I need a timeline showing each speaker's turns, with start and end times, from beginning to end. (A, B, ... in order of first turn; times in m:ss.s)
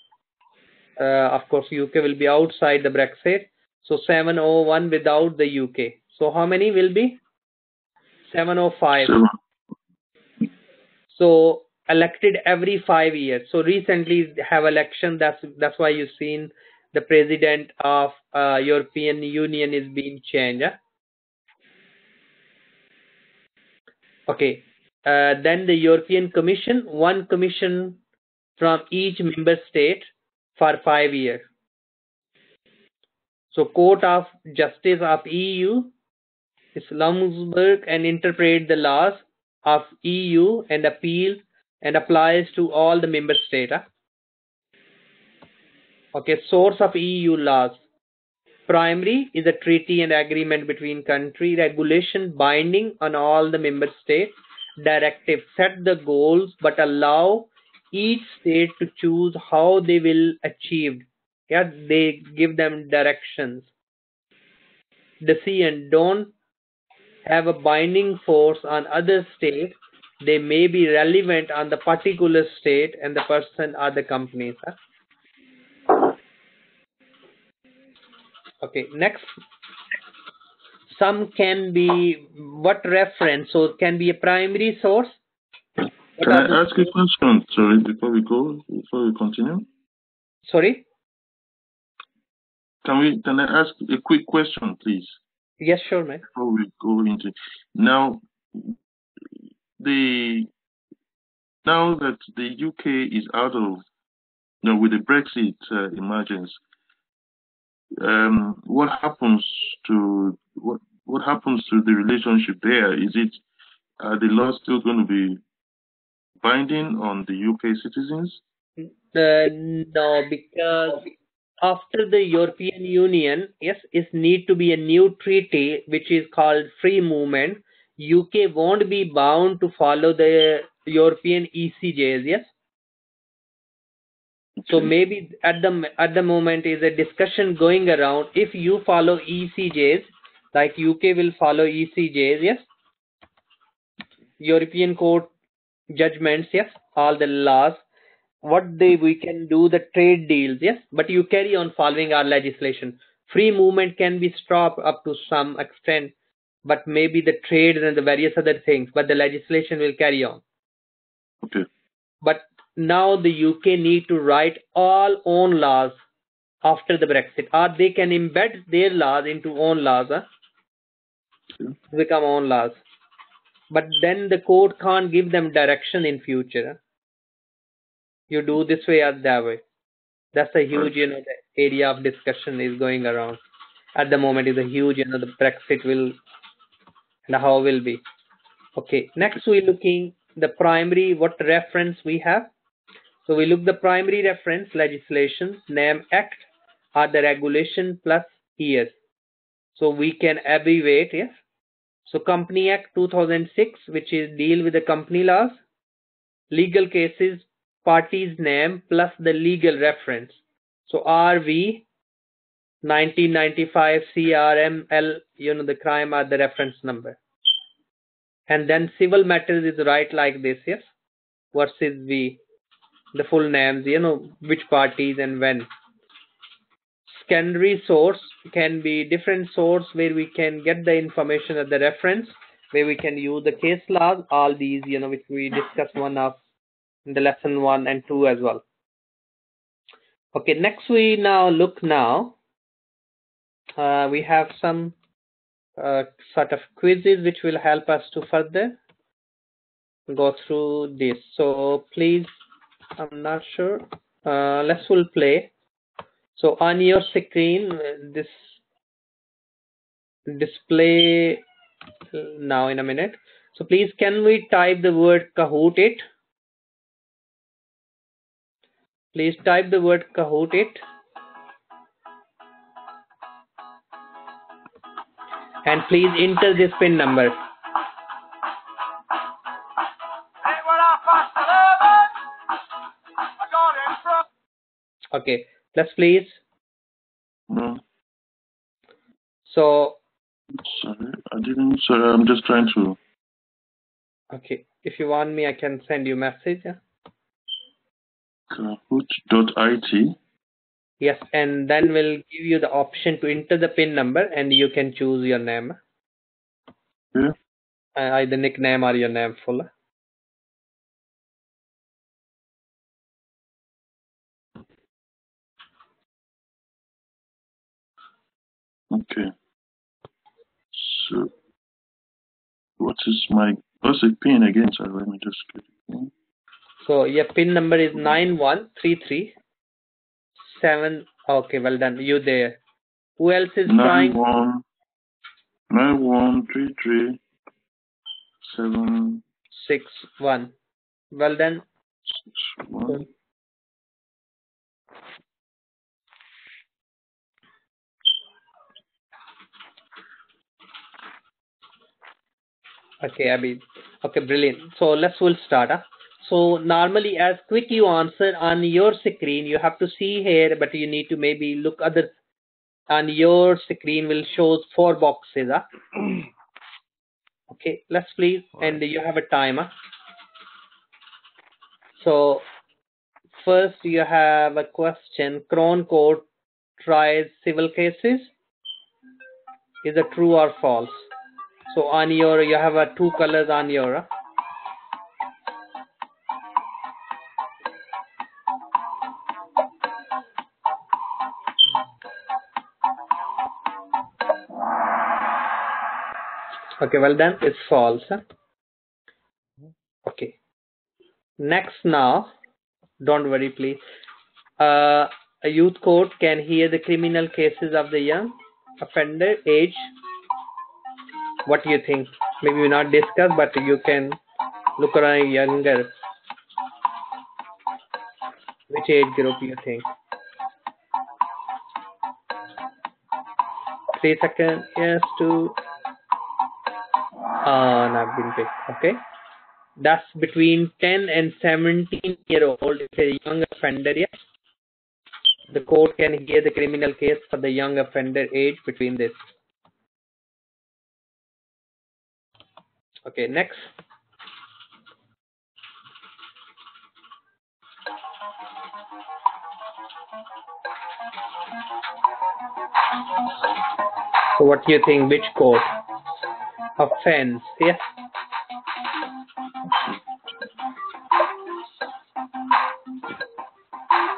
0:01.0-0:07.2 A
0:08.3-0:09.2 A
0:08.9-0:09.4 B
0:11.1-0:20.8 A
0:24.3-0:28.0 A
0:28.6-0:31.5 A
0:33.5-0:35.9 A
0:36.7-0:43.8 A
0:46.1-0:47.8 A
0:48.7-1:03.7 A
1:05.2-1:06.3 A
1:07.2-1:14.8 A
1:18.6-1:19.4 A
1:20.9-1:25.2 A
1:26.2-1:26.9 A
1:26.2-1:29.7 B
1:30.4-1:30.8 A
1:32.8-1:35.2 B
1:35.6-1:36.2 A
1:36.2-1:38.8 B
1:39.8-1:40.5 B
1:41.6-1:43.8 B
1:44.6-1:46.6 B
1:48.0-1:53.4 B
1:54.0-1:55.4 B
1:56.4-1:58.4 B
1:58.8-2:01.1 A
2:01.6-2:12.5 A
2:14.6-2:14.9 B
2:14.7-2:22.7 A
2:24.4-2:25.3 A
2:25.9-2:27.8 A
2:28.4-2:36.1 A
2:36.6-2:40.4 A
2:42.2-2:46.0 A
2:46.6-2:50.2 A
2:51.9-2:52.8 A
2:53.7-2:56.8 A
2:58.3-2:59.6 A
3:00.3-3:03.4 A
3:03.9-3:06.2 A
3:07.3-3:08.0 A
3:08.8-3:12.5 A
3:13.2-3:18.9 A
3:19.7-3:21.4 A
3:22.0-3:25.6 A
3:26.5-3:31.8 A
3:32.8-3:37.2 A
3:38.5-3:40.9 A
3:41.5-3:42.4 A
3:43.1-3:45.7 A
3:47.1-3:56.4 A
3:57.0-3:58.6 A
4:00.3-4:02.4 A
4:03.8-4:04.9 A
4:05.8-4:08.8 A
4:10.1-4:12.4 A
4:13.0-4:15.5 A
4:16.4-4:18.5 A
4:20.3-4:21.4 A
4:22.1-4:26.0 A
4:29.1-4:30.8 A
4:35.6-4:37.4 A
4:45.1-4:46.4 A
4:47.5-4:47.8 B
4:49.4-4:50.0 A
4:50.5-4:53.0 B
4:54.3-4:56.8 A
4:58.5-5:00.2 B
5:01.0-5:05.8 A
5:08.0-5:09.7 A
5:18.9-5:19.3 B
5:20.7-5:21.3 B
5:22.8-5:26.1 B
5:26.8-5:29.3 A
5:30.4-5:32.6 A
5:33.2-5:34.2 A
5:33.7-5:34.6 B
5:35.7-5:37.2 B
5:38.4-5:39.2 B
5:39.5-5:40.5 A
5:41.1-5:41.6 A
5:42.1-5:43.1 B
5:53.0-6:02.1 A
6:02.9-6:05.6 A
6:07.5-6:09.7 A
6:12.0-6:12.4 A
6:13.3-6:16.2 A
6:16.8-6:18.3 A
6:19.8-6:21.1 A
6:21.7-6:24.1 A
6:36.8-6:38.2 A
6:40.0-6:40.3 A
6:41.4-6:42.3 A
6:43.0-6:43.8 A
6:44.6-6:49.9 A
6:51.4-6:54.2 A
6:54.8-6:55.9 A
6:58.7-6:59.8 A
7:03.9-7:05.6 A
7:07.4-7:09.0 A
7:09.8-7:14.2 A
7:15.5-7:19.2 A
7:23.0-7:23.7 A
7:34.3-7:35.7 A
7:36.8-7:37.8 A